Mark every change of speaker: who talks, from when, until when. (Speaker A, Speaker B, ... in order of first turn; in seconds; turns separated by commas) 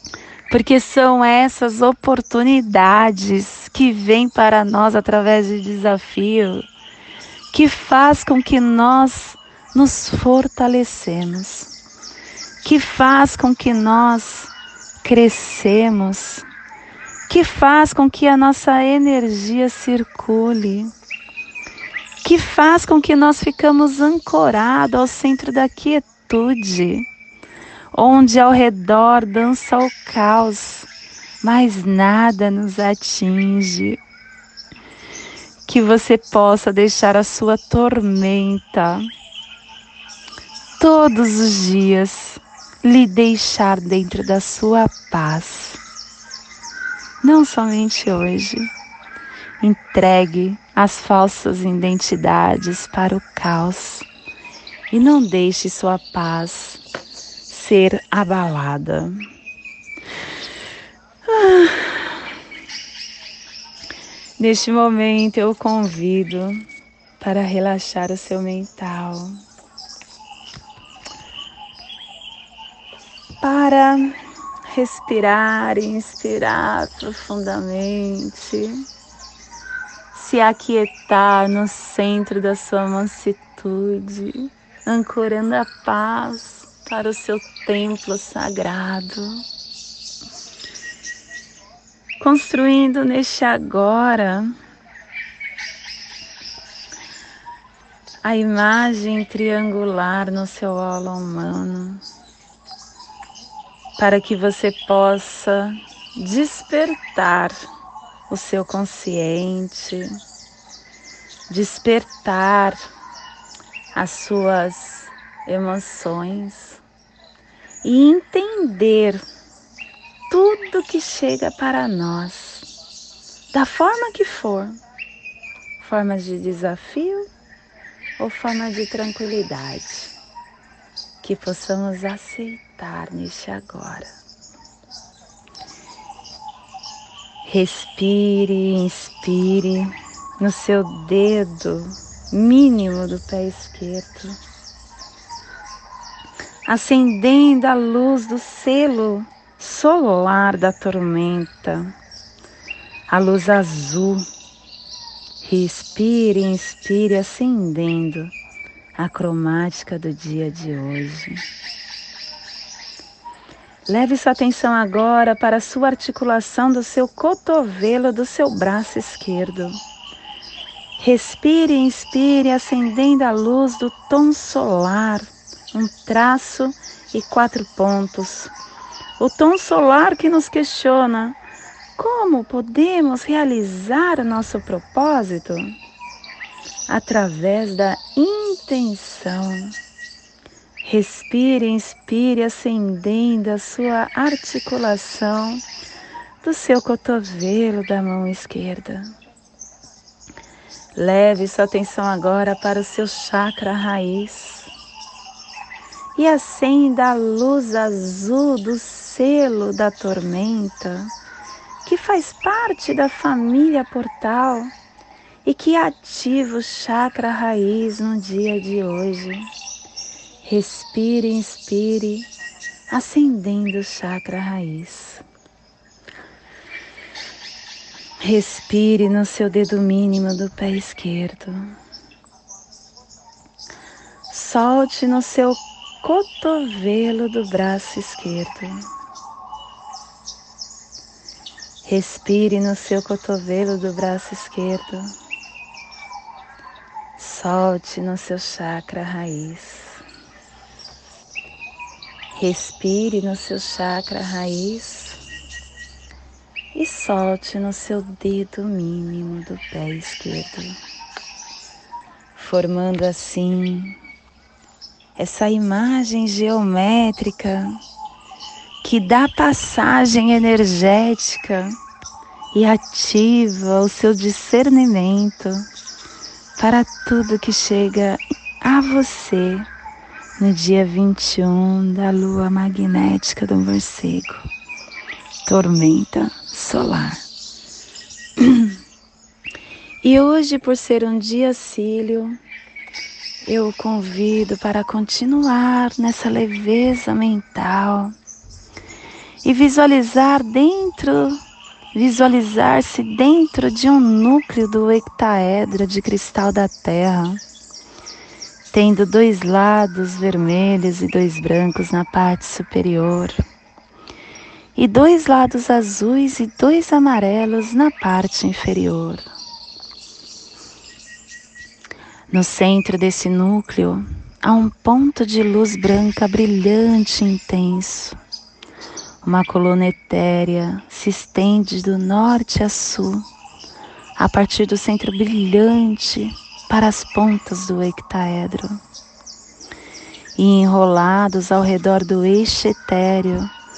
Speaker A: 0.5-6.7, Speaker A: 7.5-11.7, Speaker A: 12.6-14.5, Speaker A: 15.0-16.5, Speaker A: 17.3-20.9, Speaker A: 22.2-27.1, Speaker A: 27.9-30.9, Speaker A: 31.4-34.0, Speaker A: 35.6-39.1, Speaker A: 40.8-45.8, Speaker A: 47.2-48.7, Speaker A: 49.6-54.1, Speaker A: 54.9-56.8, Speaker A: 57.5-59.3, Speaker A: 61.3-62.1, Speaker A: 64.4-66.6, Speaker A: 67.2-69.4, Speaker A: 73.4-74.2, Speaker A: 74.7-78.8, Speaker A: 80.1-89.4, Speaker A: 92.2-94.5, Speaker A: 98.2-102.0, Speaker A: 104.0-107.7, Speaker A: 108.3-110.1, Speaker A: 111.5-112.8, Speaker A: 113.9-116.8, Speaker A: 117.8-119.2, Speaker A: 120.3-122.7, Speaker A: 123.5-124.7, Speaker A: 125.8-127.3, Speaker A: 128.2-130.1, Speaker A: 131.2-134.1, Speaker A: 137.4-144.4, Speaker A: 146.7-151.9, Speaker A: 153.1-154.3, Speaker A: 155.4-158.3, Speaker A: 159.0-161.4, Speaker A: 163.9-169.8, Speaker A: 171.0-178.5, Speaker A: 179.2-181.4, Speaker A: 182.0-185.7, Speaker A: 186.9-189.8, Speaker A: 190.8-195.6, Speaker A: 196.4-199.1, Speaker A: 200.9-204.7, Speaker A: 206.2-211.1, Speaker A: 211.8-214.7, Speaker A: 215.4-219.5, Speaker A: 220.4-222.3, Speaker A: 222.9-225.2, Speaker A: 228.2-231.7, Speaker A: 234.3-238.9, Speaker A: 241.8-245.1, Speaker A: 247.2-250.0, Speaker A: 252.3-255.2, Speaker A: 256.7-260.8, Speaker A: 262.4-264.0, Speaker A: 265.2-267.8, Speaker A: 268.8-271.8, Speaker A: 272.5-275.7, Speaker A: 276.6-279.7, Speaker A: 280.4-284.5, Speaker A: 285.4-287.2, Speaker A: 288.4-288.8, Speaker A: 290.0-292.4, Speaker A: 293.4-298.1, Speaker A: 299.4-301.4, Speaker A: 301.9-307.4, Speaker A: 308.7-313.4, Speaker A: 314.8-319.3, Speaker A: 322.3-328.2, Speaker A: 329.2-333.2, Speaker A: 334.1-338.8, Speaker A: 340.4-343.5